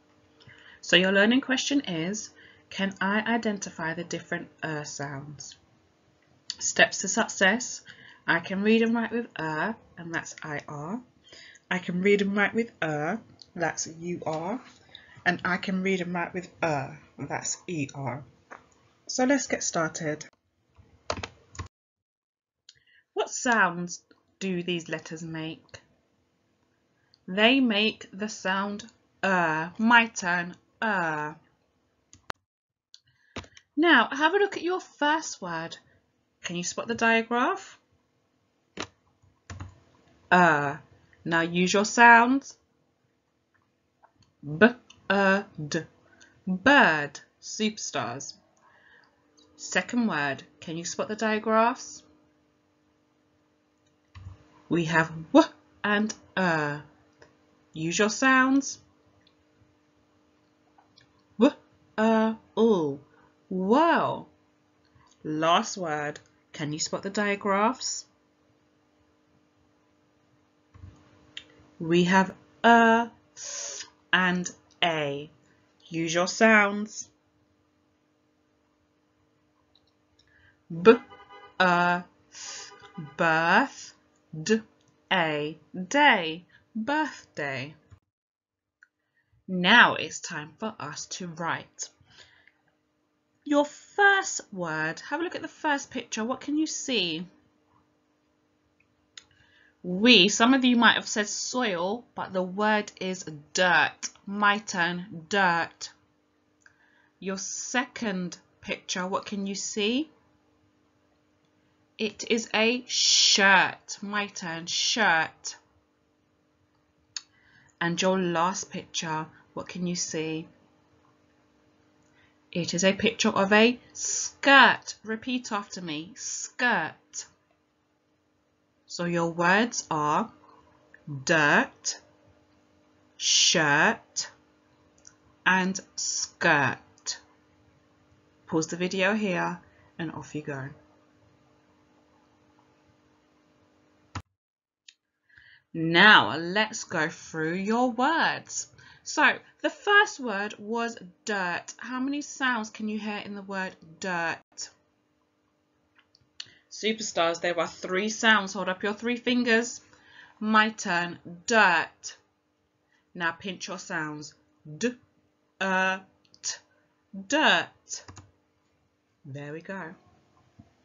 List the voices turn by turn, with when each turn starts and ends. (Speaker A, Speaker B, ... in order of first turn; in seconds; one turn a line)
Speaker A: 0.8-5.6
Speaker A: 6.6-11.0
Speaker A: 11.7-14.6
Speaker A: 15.2-18.3
Speaker A: 19.1-20.3
Speaker A: 23.1-25.8
Speaker A: 27.3-31.4
Speaker A: 33.8-35.8
Speaker A: 36.4-37.8
Speaker A: 40.3-42.6
Speaker A: 44.4-45.9
Speaker A: 46.5-48.4
Speaker A: 49.6-52.0
Speaker A: 54.7-56.9
Speaker A: 57.7-58.8
Speaker A: 61.4-64.3
Speaker A: 65.2-68.1
Speaker A: 71.8-75.3
Speaker A: 75.9-77.1
Speaker A: 80.7-81.0
Speaker A: 81.6-87.8
Speaker A: 89.5-91.9
Speaker A: 93.5-97.3
Speaker A: 99.8-105.9
Speaker A: 107.2-110.1
Speaker A: 112.0-115.6
Speaker A: 117.8-120.5
Speaker A: 122.5-127.3
Speaker A: 128.9-130.3
Speaker A: 131.1-132.0
Speaker A: 133.2-134.3
Speaker A: 135.5-137.2
Speaker A: 138.5-140.8
Speaker A: 145.7-154.7
Speaker A: 156.7-159.8
Speaker A: 160.4-162.2
Speaker A: 163.1-165.0
Speaker A: 165.6-166.6
Speaker A: 167.2-168.1
Speaker A: 169.2-170.0